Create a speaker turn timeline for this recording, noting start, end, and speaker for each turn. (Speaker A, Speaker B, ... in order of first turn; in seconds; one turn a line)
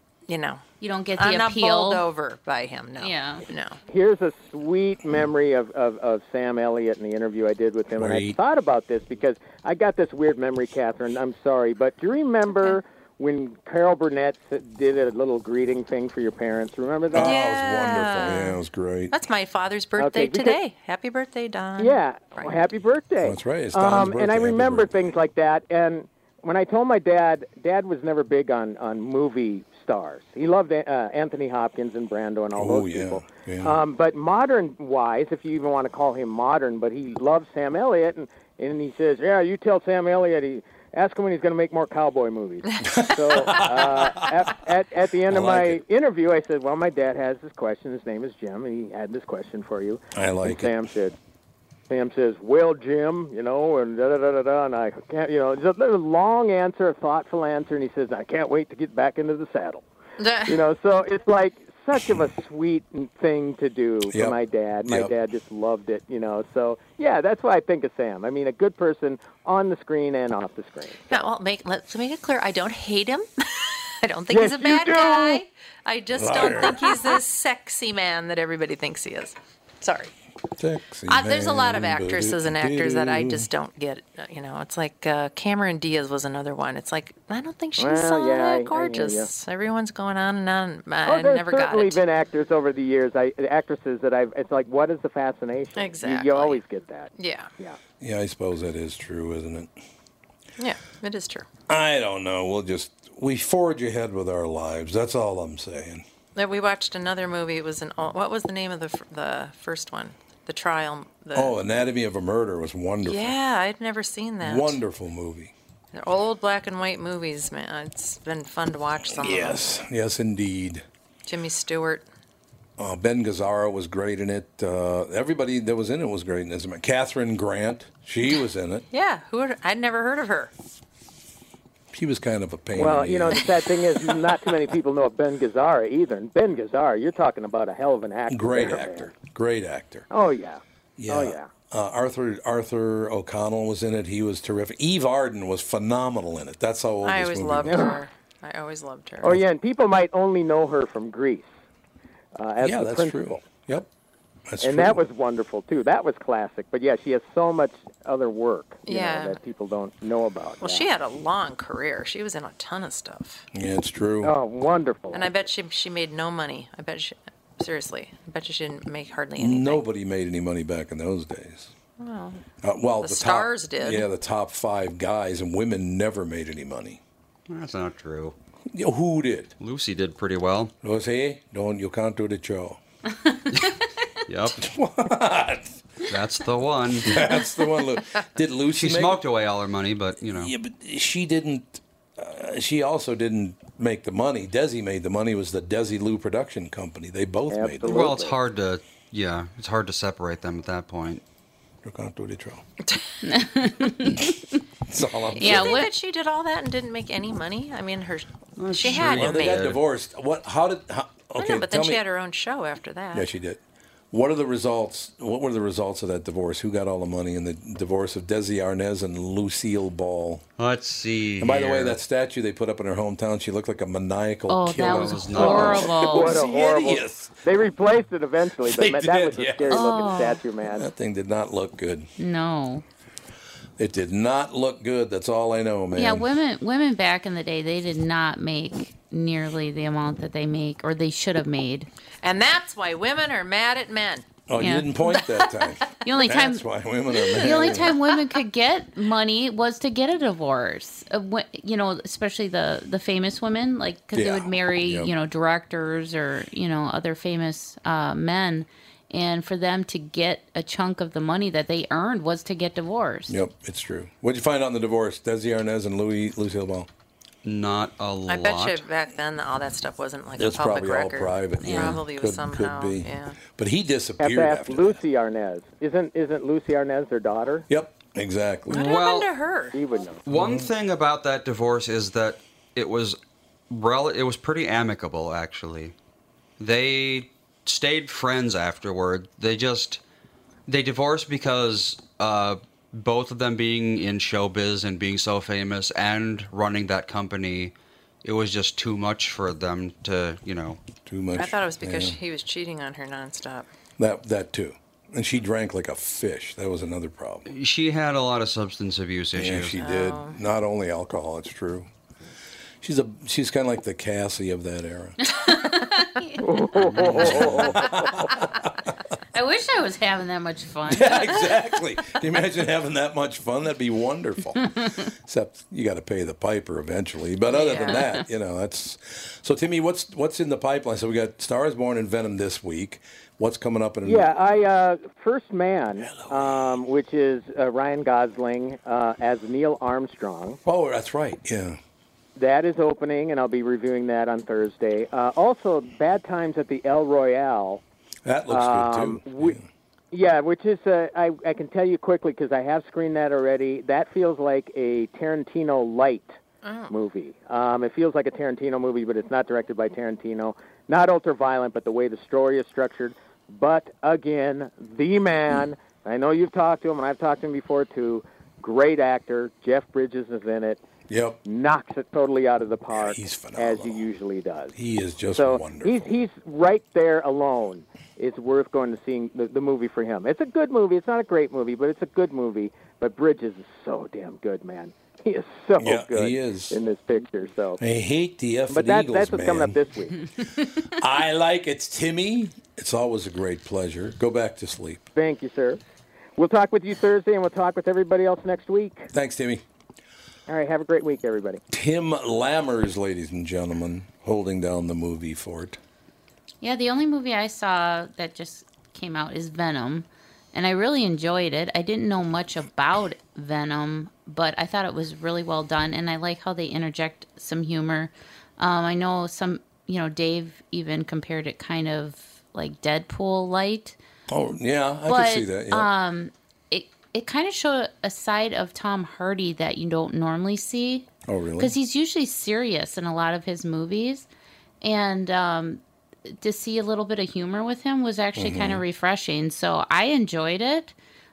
Speaker A: 0.3-0.6
Speaker B: 0.8-2.0
Speaker A: 1.2-3.8
Speaker B: 3.0-3.5
Speaker C: 3.9-17.4
Speaker D: 8.0-8.4
Speaker D: 17.1-19.1
Speaker A: 17.2-22.5
Speaker C: 20.0-20.6
Speaker C: 21.8-51.2
Speaker D: 23.2-25.1
Speaker D: 32.6-33.8
Speaker D: 42.8-44.4
Speaker D: 45.3-45.8
Speaker D: 50.1-50.8
Speaker C: 51.9-59.8
Speaker A: 60.2-60.6
Speaker C: 60.5-71.2
Speaker D: 64.1-65.1
Speaker A: 71.1-80.1
Speaker C: 74.3-75.4
Speaker D: 76.1-77.0
Speaker D: 80.6-83.5
Speaker A: 81.1-92.0
Speaker C: 87.8-89.3
Speaker C: 91.1-97.8
Speaker A: 95.8-96.6
Speaker A: 97.2-97.5
Speaker D: 98.0-99.7
Speaker A: 100.6-101.5
Speaker D: 101.7-106.0
Speaker A: 106.3-111.7
Speaker D: 111.3-113.4
Speaker A: 113.0-114.8
Speaker D: 114.4-115.5
Speaker A: 115.9-119.7
Speaker D: 119.1-120.8
Speaker A: 121.3-122.1
Speaker D: 122.8-128.8
Speaker A: 128.9-130.5
Speaker D: 131.9-133.6
Speaker C: 132.8-139.1
Speaker D: 138.3-140.1
Speaker C: 140.1-141.5
Speaker D: 141.0-147.9
Speaker A: 147.0-149.4
Speaker C: 147.7-148.0
Speaker C: 149.2-151.5
Speaker C: 152.4-153.4
Speaker D: 152.6-153.9
Speaker D: 154.5-155.0
Speaker C: 154.6-160.9
Speaker A: 158.9-159.4
Speaker A: 160.6-163.5
Speaker D: 163.5-164.3
Speaker C: 164.2-165.5
Speaker A: 165.1-169.8
Speaker D: 169.4-171.7
Speaker A: 172.0-172.4
Speaker D: 172.6-177.0
Speaker A: 173.0-174.1
Speaker E: 177.5-178.3
Speaker D: 178.7-179.5
Speaker E: 179.6-180.7
Speaker D: 180.8-182.8
Speaker E: 184.3-184.7
Speaker D: 184.6-185.8
Speaker E: 186.1-187.4
Speaker D: 187.0-189.2
Speaker E: 188.7-190.5
Speaker D: 190.3-198.2
Speaker C: 197.5-198.4
Speaker E: 197.9-201.2
Speaker D: 201.8-202.6
Speaker B: 203.2-204.6
Speaker D: 204.9-205.9
Speaker A: 205.3-209.8
Speaker B: 205.4-205.9
Speaker E: 208.6-209.8
Speaker D: 208.8-212.0
Speaker A: 211.4-213.3
Speaker D: 213.1-213.6
Speaker D: 214.1-220.4
Speaker E: 220.6-222.0
Speaker D: 221.4-227.3
Speaker B: 224.5-226.4
Speaker E: 224.8-225.9
Speaker C: 225.4-230.9
Speaker D: 228.6-229.9
Speaker B: 229.7-230.4
Speaker D: 230.7-232.1
Speaker B: 232.2-232.8
Speaker D: 233.8-236.3
Speaker B: 235.9-241.9
Speaker A: 242.2-244.3
Speaker D: 244.5-248.0
Speaker B: 244.6-245.2
Speaker A: 245.2-246.1
Speaker B: 246.0-246.6
Speaker A: 247.1-248.4
Speaker B: 247.3-263.4
Speaker D: 254.1-255.1
Speaker D: 263.3-266.9
Speaker E: 267.4-268.9
Speaker A: 268.3-273.4
Speaker D: 270.4-275.0
Speaker B: 271.6-272.1
Speaker C: 274.2-277.7
Speaker D: 277.7-278.9
Speaker A: 278.7-279.8
Speaker E: 278.7-279.3
Speaker C: 279.7-280.2
Speaker E: 280.3-283.2
Speaker D: 280.3-280.7
Speaker E: 283.7-285.9
Speaker E: 286.6-290.0
Speaker E: 290.7-300.8
Speaker D: 301.1-302.2
Speaker A: 301.4-303.7
Speaker D: 304.0-307.5
Speaker E: 307.5-309.8
Speaker D: 309.4-311.9
Speaker A: 309.8-310.4
Speaker D: 312.8-315.2
Speaker B: 315.2-317.4
Speaker C: 316.4-317.7
Speaker E: 316.8-317.4
Speaker D: 317.0-318.7
Speaker B: 319.3-321.4
Speaker D: 320.9-334.3
Speaker A: 327.5-328.1
Speaker C: 334.1-340.6
Speaker D: 336.0-336.8
Speaker D: 340.6-341.8
Speaker C: 342.4-347.8
Speaker D: 348.2-349.6
Speaker C: 348.5-349.6
Speaker C: 350.1-356.4
Speaker A: 356.6-356.9
Speaker C: 356.9-370.8
Speaker D: 371.1-371.4
Speaker C: 371.4-374.7
Speaker D: 372.9-374.0
Speaker D: 374.8-376.1
Speaker C: 375.4-387.8
Speaker D: 385.8-386.8
Speaker D: 387.8-389.8
Speaker C: 388.7-390.2
Speaker D: 390.9-395.0
Speaker C: 395.2-395.8
Speaker C: 396.4-399.1
Speaker D: 399.1-399.6
Speaker C: 400.5-401.6
Speaker D: 401.7-405.8
Speaker B: 406.6-424.0
Speaker D: 424.3-425.9
Speaker B: 425.1-434.3
Speaker D: 431.3-431.7
Speaker B: 434.8-440.9
Speaker D: 438.4-438.8